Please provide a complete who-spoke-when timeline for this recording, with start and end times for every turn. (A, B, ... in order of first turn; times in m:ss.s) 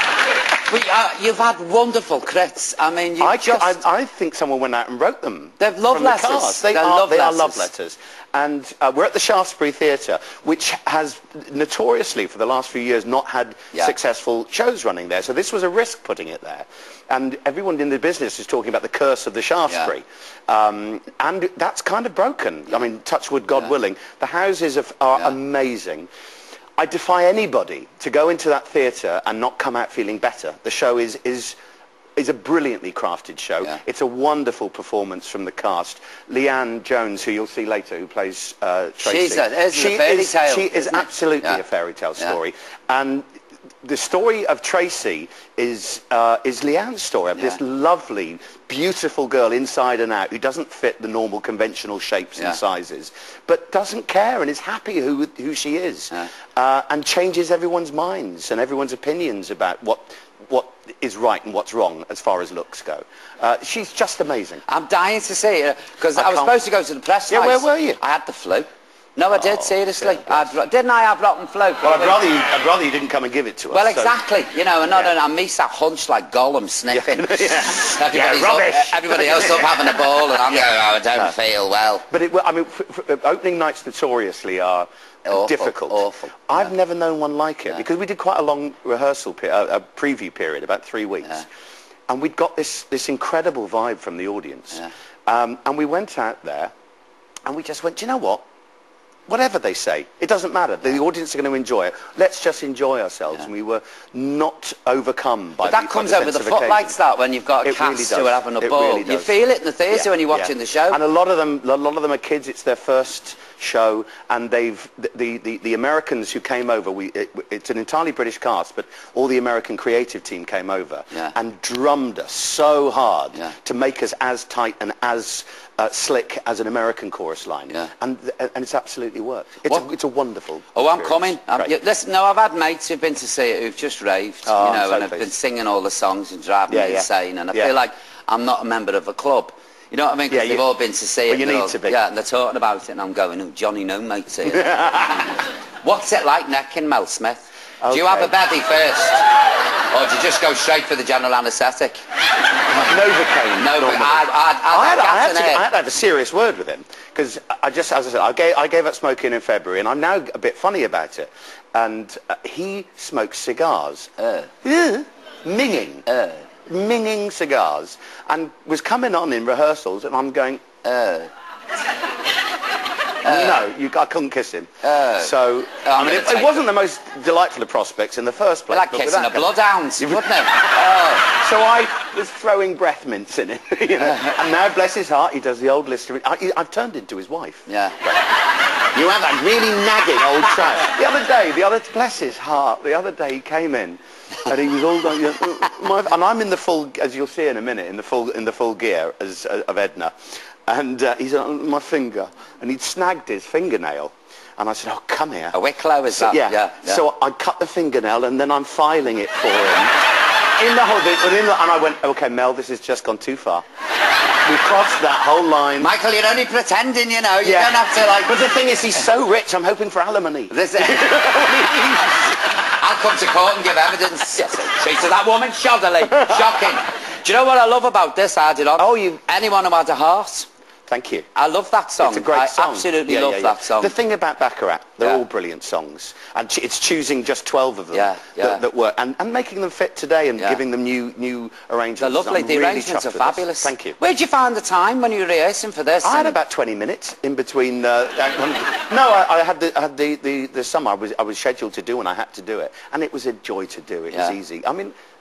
0:00.7-0:03.8 A
0:03.2-0:26.1 B
0:05.6-0:07.7 A
0:26.8-0:31.6 B
0:32.2-0:43.2 B
0:39.0-0:41.6 A
0:43.8-1:04.6 B
1:04.7-1:12.2 A
1:06.2-1:06.6 B
1:07.3-1:08.0 B
1:09.3-1:10.6 B
1:11.8-1:14.1 B
1:13.7-1:22.1 A
1:14.9-1:15.1 B
1:16.9-1:21.3 B
1:22.1-1:31.4 B
1:25.3-1:26.7 A
1:32.1-1:36.7 B
1:37.5-1:38.4 B
1:39.3-1:47.0 B
1:45.6-1:51.0 A
1:47.6-1:49.4 B
1:49.9-2:11.8 B
2:10.8-2:29.2 A
2:14.5-2:15.3 B
2:16.7-2:17.8 B
2:20.3-2:20.7 B
2:21.3-2:22.0 B
2:24.4-2:25.3 B
2:27.8-2:28.3 B
2:29.9-2:32.0 A
2:32.8-2:44.1 B
2:33.6-2:35.6 A
2:44.2-2:44.5 A
2:44.6-2:46.1 B
2:46.1-2:46.4 A
2:46.7-2:50.6 B
2:50.8-2:51.3 A
2:53.2-2:53.6 A
2:53.2-3:00.7 B
2:54.8-2:56.6 A
2:58.7-3:01.3 A
3:01.3-3:08.2 B
3:07.7-3:08.0 A
3:08.9-3:20.1 B
3:20.7-3:25.6 B
3:25.5-3:27.0 A
3:26.1-3:30.0 B
3:30.6-3:33.6 B
3:34.4-3:35.9 B
3:35.8-3:38.4 A
3:37.4-3:42.4 B
3:40.5-3:50.5 A
3:46.1-3:46.7 B
3:48.8-3:49.2 B
3:50.9-3:51.3 B
3:51.3-3:53.9 A
3:52.0-4:04.0 B
3:57.9-3:58.6 A
4:02.0-4:06.4 A
4:06.0-4:14.9 B